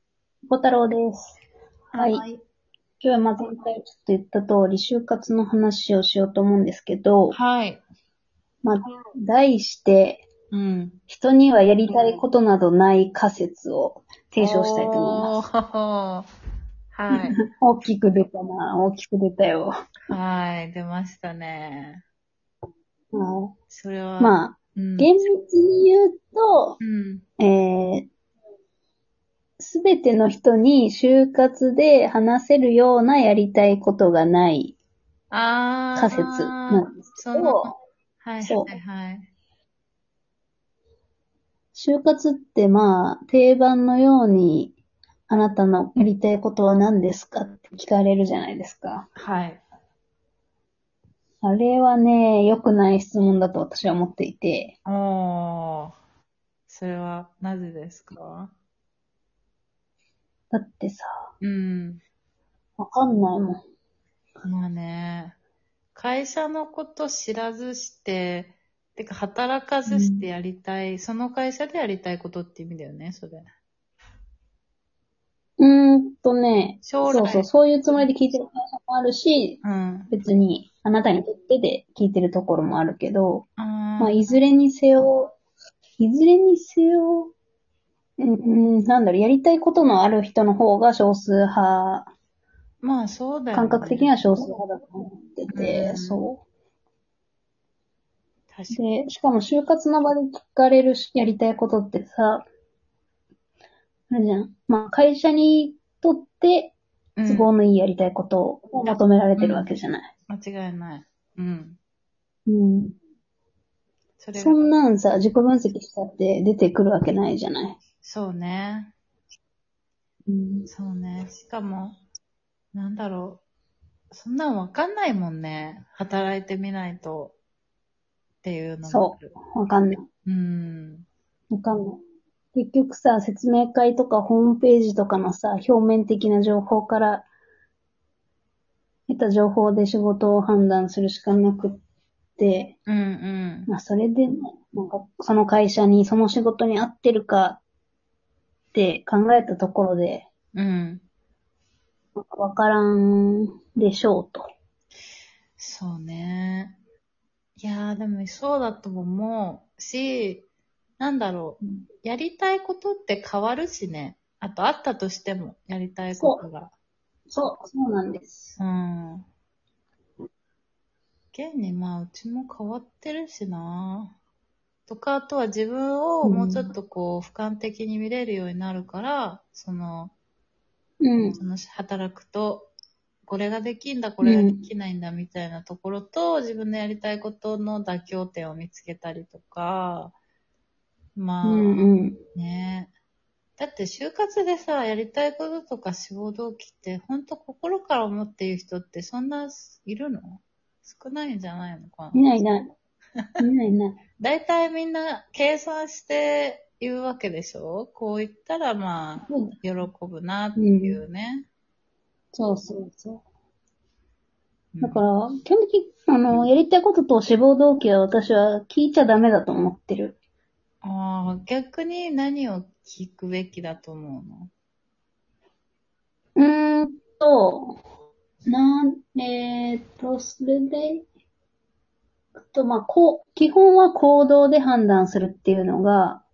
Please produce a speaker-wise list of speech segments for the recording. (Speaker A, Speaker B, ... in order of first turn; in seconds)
Speaker A: 0.5-1.4, 2.0-2.2, 3.0-7.4, 8.6-10.2, 11.1-15.4, 17.1-19.7, 23.1-23.5, 24.2-26.8, 27.4-28.1, 29.6-34.8, 36.0-37.7, 38.4-38.7, 41.7-44.8, 45.3-49.1, 51.4-54.7, 60.5-61.1, 62.8-63.6, 69.9-70.3, 75.6-83.5, 84.0-85.3, 86.0-87.3, 88.2-92.1, 93.5-96.4, 98.7-102.5, 104.1-106.8, 107.3-110.1, 112.5-113.0, 114.3-117.8, 120.3-120.7, 128.8-130.1, 131.5-132.0, 132.5-137.2, 139.1-141.8, 142.4-142.7, 143.7-147.6, 148.7-150.3, 152.2-154.5, 166.1-166.4, 167.3-168.6, 176.2-176.7, 181.0-181.4, 184.2-184.6, 191.4-192.2, 202.1-202.7, 203.4-204.0, 209.3-209.5, 210.6-211.0, 212.3-213.2, 214.8-220.2, 226.3-227.8, 228.5-231.0, 232.5-236.2
Speaker B: 1.9-2.4, 7.3-7.8, 8.8-9.1, 10.5-11.0, 11.9-12.2, 14.4-16.3, 16.9-17.4, 20.1-22.0, 23.7-25.1, 26.8-27.2, 35.3-39.3, 49.1-49.6, 54.8-56.0, 56.7-58.5, 61.4-62.0, 64.4-65.4, 65.9-73.5, 76.8-77.5, 79.6-80.1, 83.6-84.3, 92.8-94.2, 95.5-96.2, 98.5-98.8, 107.2-107.5, 108.8-109.7, 110.3-111.8, 114.2-114.7, 118.0-118.9, 120.7-122.0, 122.7-123.4, 124.1-127.4, 128.4-129.3, 130.2-131.1, 142.9-143.7, 150.5-151.0, 155.6-156.8, 157.6-160.4, 161.0-166.7, 168.6-169.2, 171.3-174.1, 174.9-180.1, 181.2-182.7, 183.3-190.1, 191.2-192.9, 193.6-202.4, 204.2-211.5, 214.7-215.0, 220.8-224.5